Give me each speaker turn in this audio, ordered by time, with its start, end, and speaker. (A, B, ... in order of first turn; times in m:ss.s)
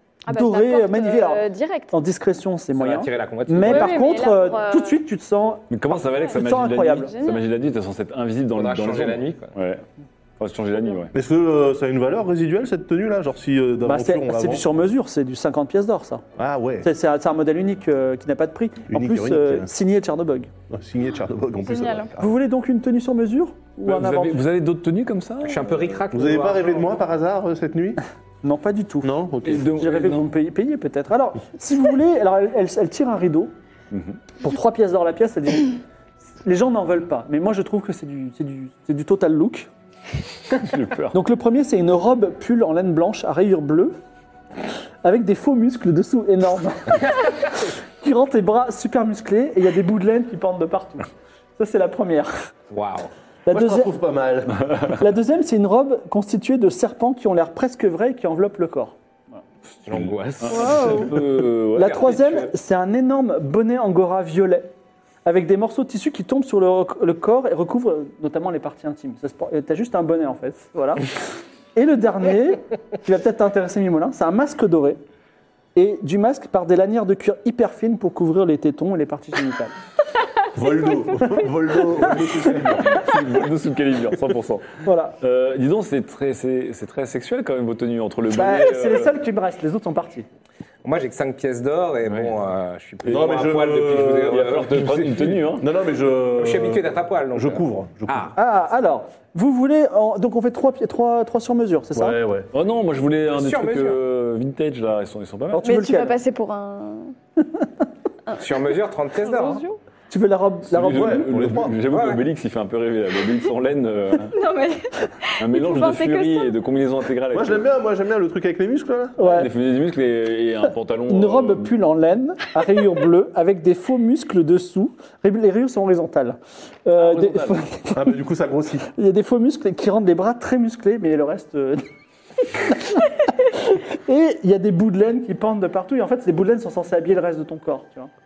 0:00.3-0:02.0 A
0:00.3-0:05.7 B
0:02.7-0:04.1 C
0:03.6-0:05.0 A
0:05.7-0:09.8 D
0:06.0-0:07.5 A
0:06.2-0:07.1 B
0:08.5-0:09.6 C
0:10.4-0:11.1 D
0:11.1-0:14.7 E
0:13.8-0:16.2 B
0:16.4-0:16.9 E
0:16.8-0:20.5 B
0:18.9-0:19.7 E
0:20.7-0:22.4 E
0:21.6-0:22.1 A
0:22.2-0:24.4 B
0:23.8-0:25.9 D
0:25.4-0:26.9 C
0:26.1-0:28.0 E
0:28.4-0:29.1 B
0:29.0-0:29.7 E
0:29.4-0:30.3 D
0:29.7-0:33.5 B
0:33.9-0:34.2 D
0:34.4-0:35.8 B
0:36.4-0:39.7 B
0:40.6-0:41.2 D
0:41.1-0:44.0 B
0:45.0-0:47.5 B
0:48.0-0:52.5 B
0:52.7-0:53.1 C
0:53.5-0:53.9 B
0:53.5-0:54.7 E
0:54.9-0:59.0 B
0:59.9-1:01.1 C
0:59.9-1:02.4 D
1:00.5-1:01.1 B
1:01.8-1:04.7 B
1:01.8-1:02.5 C
1:05.2-1:11.1 B
1:11.8-1:15.0 B
1:15.8-1:19.8 B
1:20.5-1:23.1 E
1:22.2-1:29.1 D
1:24.8-1:25.2 B
1:28.3-1:30.3 B
1:30.8-1:35.1 C
1:32.1-1:32.4 D
1:33.1-1:38.3 E
1:34.2-1:35.7 D
1:36.4-1:38.4 C
1:38.4-1:42.2 B
1:41.9-1:42.5 E
1:42.5-1:45.7 D
1:43.3-1:44.0 C
1:45.5-1:46.2 B
1:45.6-1:47.2 A
1:48.3-1:48.6 A
1:48.4-1:49.6 C
1:49.2-1:49.8 A
1:50.1-1:51.4 B
1:50.7-1:54.3 D
1:50.9-1:51.8 E
1:51.8-1:52.3 C
1:54.3-1:56.5 A
1:55.4-1:57.6 D
1:57.3-1:59.2 E
1:59.2-1:59.5 B
1:59.2-2:01.7 D
2:01.1-2:08.1 B
2:07.0-2:07.6 D
2:07.9-2:08.9 E
2:08.9-2:11.9 B
2:12.4-2:18.1 B